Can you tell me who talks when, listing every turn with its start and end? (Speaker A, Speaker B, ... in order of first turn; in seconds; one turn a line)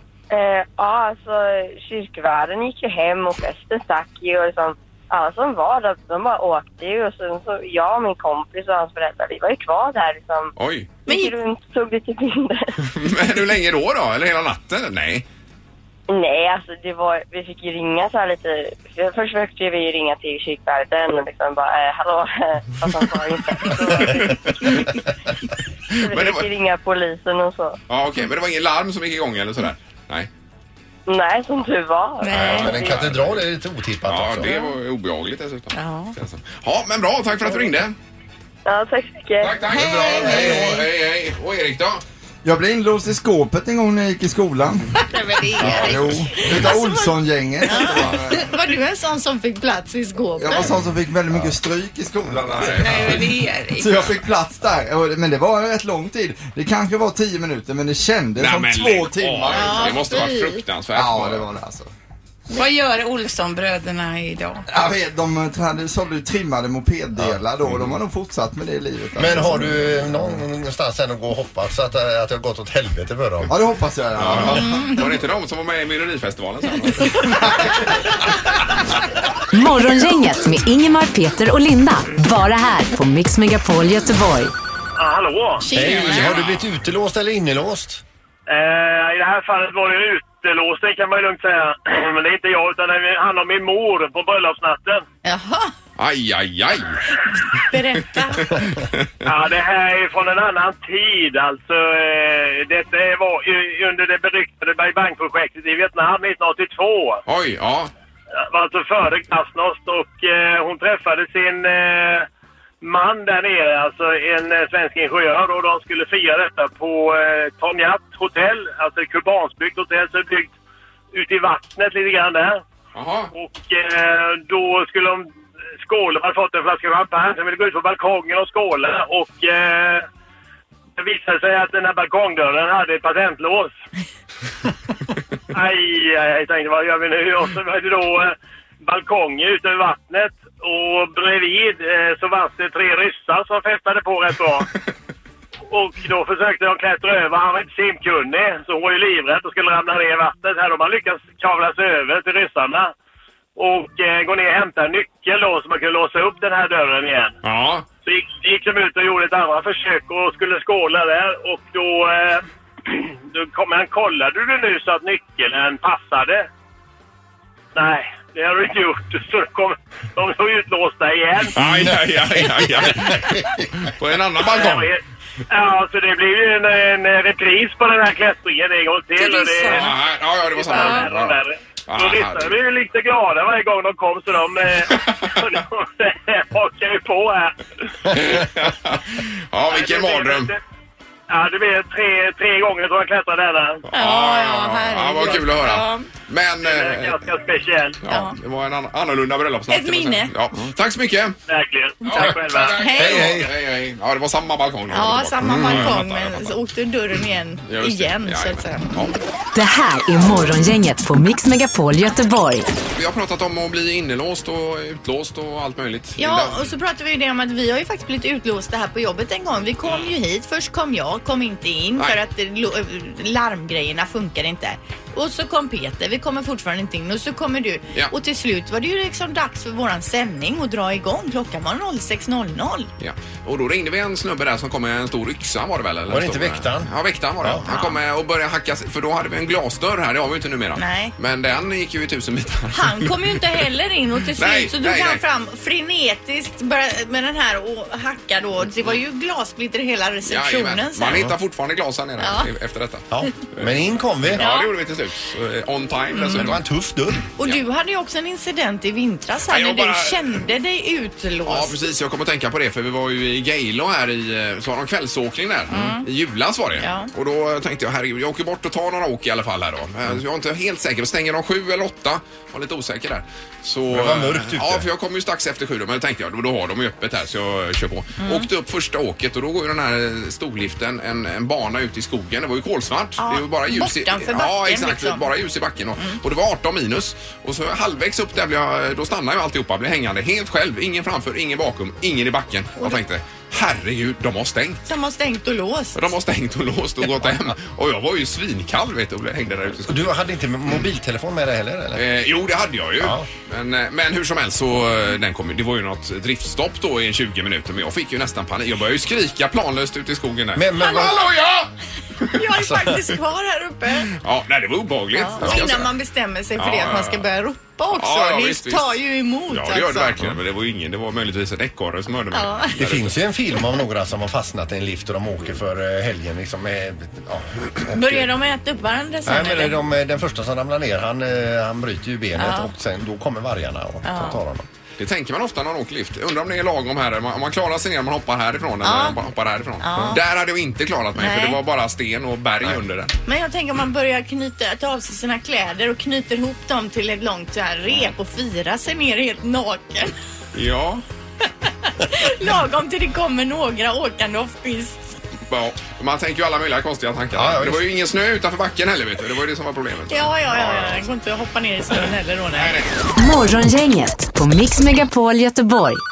Speaker A: 0.3-10.5
Speaker B: 10.6-10.9
Speaker A: 11.1-12.7
Speaker C: 11.1-11.3
Speaker B: 12.9-15.3
Speaker A: 16.1-24.9
Speaker B: 24.0-24.4
Speaker A: 25.9-27.8
Speaker B: 26.1-26.5
Speaker B: 27.9-30.3
Speaker A: 31.1-32.9
Speaker C: 32.2-32.8
Speaker B: 32.3-33.4
Speaker D: 32.5-34.5
Speaker B: 34.0-38.0
Speaker C: 34.4-34.7
Speaker C: 35.8-36.1
Speaker A: 38.7-39.6
Speaker B: 39.4-42.0
Speaker C: 39.7-40.8
Speaker D: 40.0-40.7
Speaker E: 42.4-45.0
Speaker F: 45.1-46.8
Speaker C: 45.6-45.9
Speaker E: 45.6-48.5
Speaker D: 45.6-45.9
Speaker C: 46.4-50.7
Speaker E: 50.4-60.1
Speaker B: 52.4-53.1
Speaker F: 52.8-54.0
Speaker B: 58.4-61.5
Speaker C: 59.5-60.6
Speaker E: 60.9-61.9
Speaker F: 62.5-64.6
Speaker E: 64.7-70.3
Speaker D: 69.2-73.5
Speaker E: 73.5-74.8
Speaker B: 74.2-77.4
Speaker C: 74.6-75.2
Speaker C: 77.1-77.4
Speaker G: 79.5-84.5
Speaker H: 85.0-85.7
Speaker C: 85.6-86.4
Speaker D: 85.7-88.0
Speaker B: 85.8-86.6
Speaker H: 88.5-95.0
Speaker C: 95.2-95.7
Speaker B: 96.0-97.1
Speaker C: 97.7-98.7
Speaker B: 98.1-99.1
Speaker H: 99.2-107.2
Speaker B: 107.3-107.9
Speaker H: 108.5-112.3
Speaker H: 112.8-120.5
Speaker H: 121.1-122.6
Speaker B: 122.9-123.3
Speaker H: 123.3-125.3
Speaker H: 125.8-130.1
Speaker H: 131.0-133.8
Speaker H: 135.5-144.7
Speaker H: 145.7-152.9
Speaker H: 153.6-157.4
Speaker B: 157.4-157.9
Speaker H: 158.1-166.5
Speaker H: 167.7-171.6
Speaker B: 171.6-174.9
Speaker D: 171.6-173.7
Speaker H: 174.5-179.9
Speaker C: 179.2-179.7
Speaker F: 179.3-179.7
Speaker B: 179.7-182.6
Speaker H: 180.6-187.6
Speaker B: 188.1-190.5
Speaker H: 189.7-190.6
Speaker H: 191.3-193.9
Speaker C: 193.9-196.1
Speaker B: 193.9-197.3
Speaker H: 196.6-198.0
Speaker B: 198.0-201.4
Speaker C: 198.1-198.3
Speaker C: 199.7-200.3
Speaker H: 201.5-202.8
Speaker B: 202.0-206.6
Speaker C: 202.8-203.4
Speaker D: 203.0-203.5
Speaker C: 204.9-208.9
Speaker D: 205.4-205.9
Speaker B: 207.7-209.2
Speaker G: 209.6-212.7
Speaker B: 212.9-216.7
Speaker C: 216.2-232.9
Speaker B: 219.8-220.1
Speaker B: 233.0-243.6
Speaker D: 236.1-237.6
Speaker C: 237.7-238.0
Speaker C: 240.8-241.1
Speaker C: 242.7-251.3
Speaker B: 244.4-245.2
Speaker B: 250.2-256.6
Speaker C: 252.2-252.5
Speaker D: 253.1-254.4
Speaker C: 254.4-254.7
Speaker C: 256.1-256.5
Speaker D: 256.3-257.2
Speaker C: 257.4-261.8
Speaker B: 259.5-260.4
Speaker B: 261.5-294.8
Speaker C: 265.7-266.1
Speaker C: 266.8-267.1
Speaker D: 273.9-274.9
Speaker C: 278.2-278.5
Speaker C: 283.2-285.2
Speaker C: 294.9-296.0
Speaker B: 295.9-300.2
Speaker D: 299.9-302.0
Speaker B: 301.9-311.7
Speaker D: 303.0-303.3
Speaker D: 310.6-311.3
Speaker C: 312.3-314.1
Speaker B: 314.2-315.9
Speaker C: 315.1-320.3
Speaker D: 315.4-315.7
Speaker B: 316.6-317.3
Speaker B: 317.9-323.1
Speaker C: 322.3-322.8
Speaker D: 322.8-328.3
Speaker C: 327.9-329.8
Speaker D: 329.3-334.7
Speaker C: 332.4-332.7
Speaker C: 334.1-334.4
Speaker B: 335.0-343.1
Speaker C: 338.8-339.2
Speaker C: 339.8-340.2
Speaker C: 341.2-341.6
Speaker C: 343.2-350.1
Speaker B: 350.5-351.0
Speaker C: 352.0-355.1
Speaker B: 355.5-361.1
Speaker D: 357.3-357.8
Speaker C: 360.1-362.8
Speaker B: 362.5-363.0
Speaker G: 363.2-366.0